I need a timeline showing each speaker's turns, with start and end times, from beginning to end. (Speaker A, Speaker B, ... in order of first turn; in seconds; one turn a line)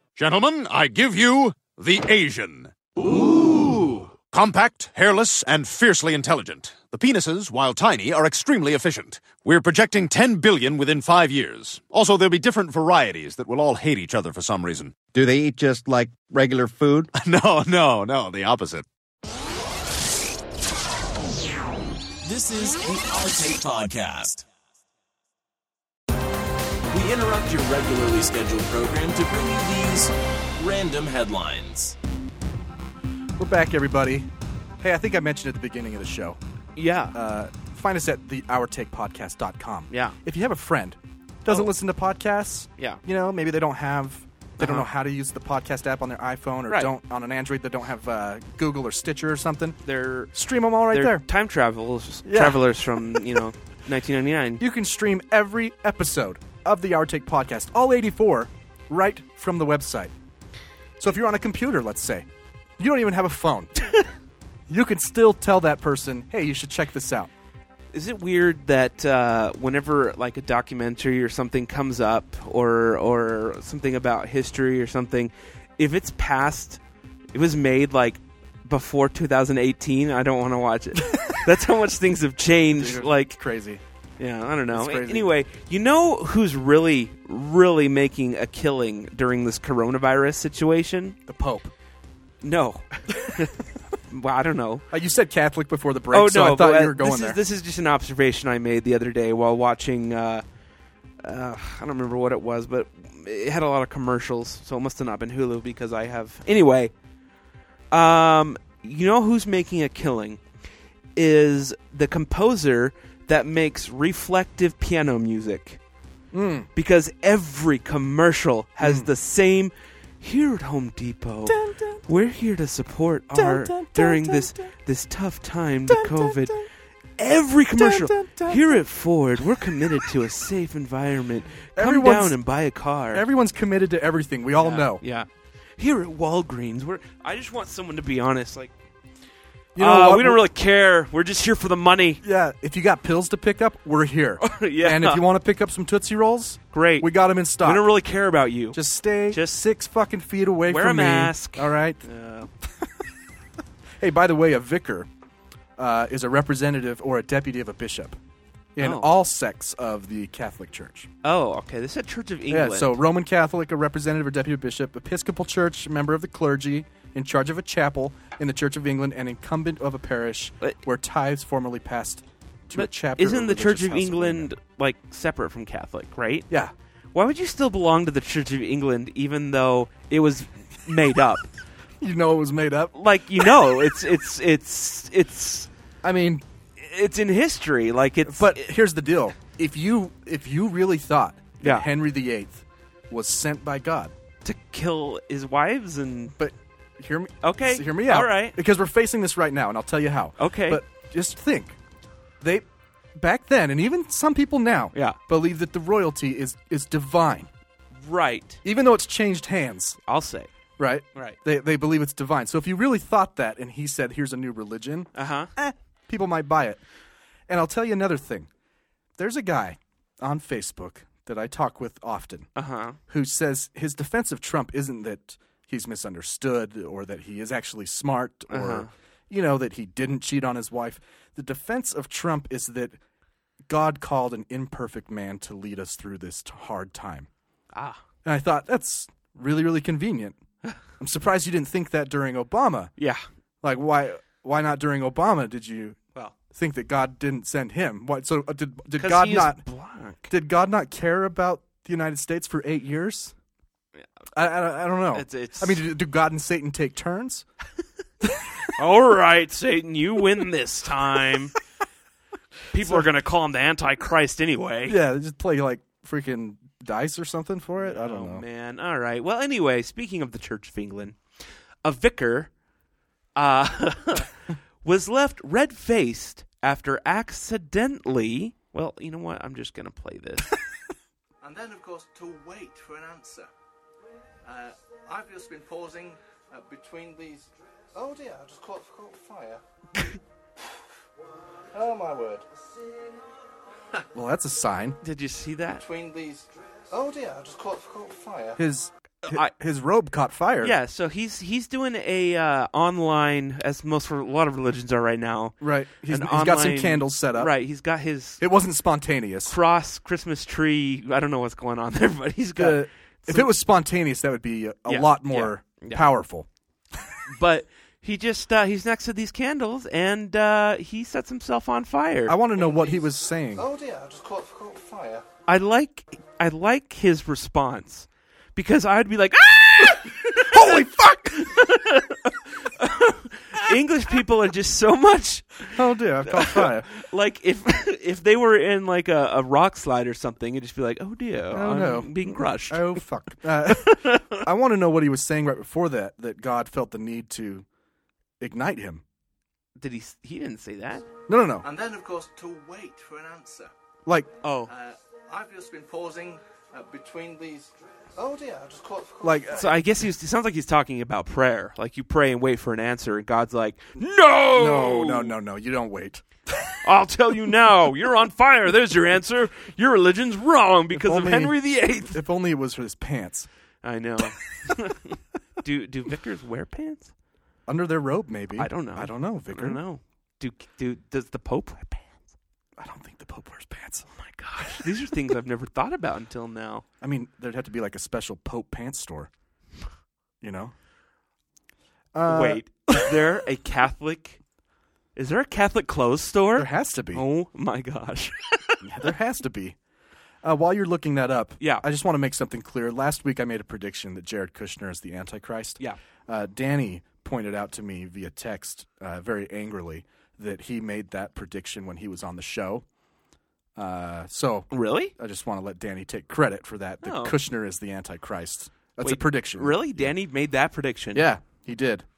Speaker A: 0.1-2.7
Speaker A: 3.4-15.3
Speaker B: 15.1-17.1
Speaker A: 17.1-18.9
Speaker C: 22.2-24.5
Speaker C: 26.9-31.9
Speaker D: 33.4-36.4
Speaker E: 36.8-37.1
Speaker D: 37.1-49.8
Speaker E: 39.9-40.1
Speaker E: 44.6-44.9
Speaker E: 46.7-46.9
Speaker E: 49.9-50.3
Speaker D: 50.3-51.2
Speaker E: 50.9-54.6
Speaker D: 52.2-53.4
Speaker D: 54.6-60.1
Speaker D: 61.0-62.3
Speaker D: 62.8-63.7
Speaker D: 64.7-67.3
Speaker E: 67.9-76.8
Speaker E: 77.3-83.4
Speaker D: 82.7-83.8
Speaker E: 84.2-91.2
Speaker D: 84.7-85.3
Speaker D: 91.3-91.7
Speaker E: 92.4-94.8
Speaker D: 94.9-97.4
Speaker E: 96.1-100.4
Speaker E: 101.2-106.9
Speaker E: 107.9-110.4
Speaker E: 111.2-115.8
Speaker D: 116.3-116.7
Speaker E: 116.7-126.6
Speaker D: 118.8-119.1
Speaker D: 121.5-122.0
Speaker D: 123.3-124.7
Speaker D: 125.9-126.7
Speaker E: 127.2-133.2
Speaker D: 127.7-128.8
Speaker D: 129.6-130.1
Speaker D: 131.8-132.4
Speaker D: 133.1-135.0
Speaker E: 134.6-138.7
Speaker D: 139.7-140.4
Speaker E: 139.8-142.2
Speaker D: 142.2-147.9
Speaker E: 144.4-145.2
Speaker E: 146.7-149.6
Speaker D: 148.7-152.1
Speaker E: 150.7-152.5
Speaker D: 154.0-155.1
Speaker D: 155.8-158.2
Speaker D: 158.7-161.1
Speaker E: 158.8-159.1
Speaker E: 161.2-163.0
Speaker D: 162.5-174.5
Speaker E: 172.7-176.5
Speaker E: 177.1-181.5
Speaker D: 182.0-183.5
Speaker E: 182.9-185.7
Speaker D: 186.0-186.4
Speaker E: 186.8-188.7
Speaker D: 188.2-194.1
Speaker E: 191.6-191.9
Speaker E: 194.4-196.3
Speaker D: 196.4-201.8
Speaker E: 197.4-198.6
Speaker E: 200.4-200.8
Speaker D: 202.4-207.5
Speaker E: 208.0-208.6
Speaker D: 208.6-210.0
Speaker E: 210.1-210.5
Speaker D: 210.8-216.8
Speaker E: 215.1-215.5
Speaker D: 217.5-218.5
Speaker D: 219.2-222.5
Speaker E: 222.6-223.0
Speaker D: 223.1-233.0
Speaker E: 228.5-228.9
Speaker D: 233.7-237.3
Speaker E: 237.7-238.0
Speaker D: 238.2-240.4
Speaker D: 241.0-242.9
Speaker E: 243.0-243.2
Speaker D: 243.6-246.0
Speaker D: 246.5-249.6
Speaker E: 249.0-250.3
Speaker D: 250.3-253.3
Speaker D: 254.3-257.5
Speaker E: 255.1-255.8
Speaker E: 258.7-261.6
Speaker E: 262.7-265.0
Speaker D: 262.8-263.1
Speaker D: 264.9-268.4
Speaker E: 267.8-271.2
Speaker E: 271.8-272.5
Speaker E: 273.4-274.3
Speaker E: 274.8-280.5
Speaker F: 281.4-283.5
Speaker F: 284.4-289.6
Speaker F: 291.7-292.5
Speaker D: 294.1-295.0
Speaker E: 295.0-295.8
Speaker F: 295.8-298.6
Speaker D: 298.6-300.7
Speaker E: 299.2-299.5
Speaker E: 300.6-308.4
Speaker D: 305.6-307.5
Speaker D: 308.4-309.6
Speaker E: 309.4-313.5
Speaker D: 312.6-317.1
Speaker E: 314.9-316.1
Speaker E: 317.3-322.4
Speaker D: 322.3-323.7
Speaker F: 322.6-323.0
Speaker F: 323.6-325.2
Speaker E: 325.5-343.0
Speaker D: 330.3-331.5
Speaker D: 335.7-336.9
Speaker D: 341.5-347.6
Speaker E: 343.6-344.4
Speaker D: 348.4-349.0
Speaker E: 349.8-351.1
Speaker D: 351.3-351.7
Speaker F: 351.6-353.7
Speaker E: 354.4-354.7
Speaker F: 354.7-359.6
Speaker D: 359.2-359.6
Speaker E: 359.5-365.4
Speaker D: 364.5-366.7
Speaker E: 366.8-372.2
Speaker D: 370.9-373.5
Speaker E: 373.8-377.1
Speaker D: 377.7-379.8
Speaker E: 378.6-382.1
Speaker D: 382.8-384.9
Speaker E: 384.2-386.8
Speaker D: 387.0-389.3
Speaker D: 390.4-390.7
Speaker D: 392.1-393.4
Speaker E: 392.2-394.4
Speaker E: 395.1-399.1
Speaker D: 396.6-397.2
Speaker D: 398.8-399.8
Speaker D: 400.4-412.8
Speaker D: 413.8-420.1
Speaker E: 414.7-415.1
Speaker E: 417.0-417.3
Speaker E: 419.0-421.3
Speaker D: 421.1-422.1